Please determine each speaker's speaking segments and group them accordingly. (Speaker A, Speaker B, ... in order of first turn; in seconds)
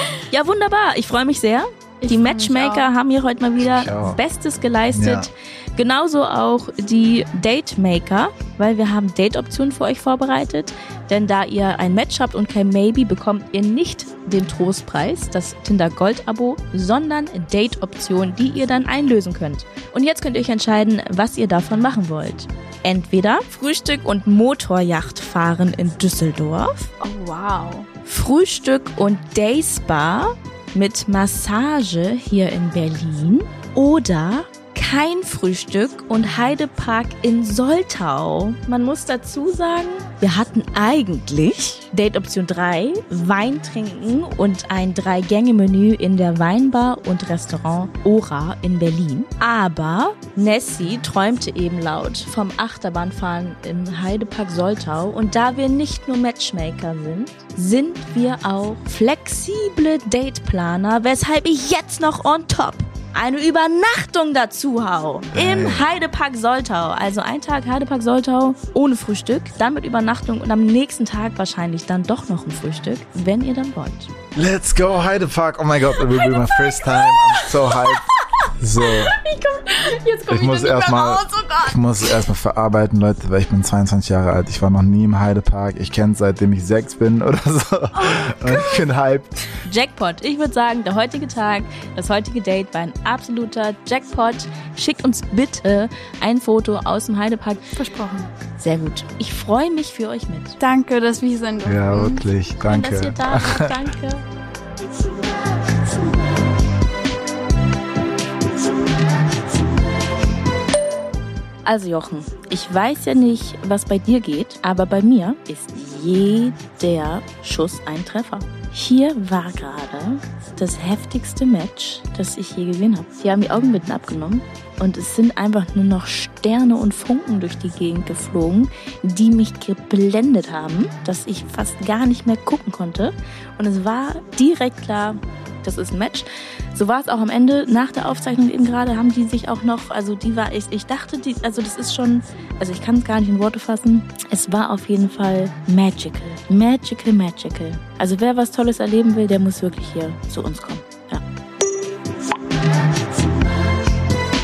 Speaker A: 0.3-26.9, 28.1-74.1, 89.7-97.7, 98.6-100.6, 102.6-104.2, 111.7-151.2
Speaker B: 2.0-2.9, 27.0-27.9, 76.3-82.2, 88.0-88.9, 97.8-98.3, 100.6-102.2
Speaker C: 3.6-4.2, 4.9-5.3, 65.3-65.9, 74.3-79.2, 80.3-89.6, 101.7-103.9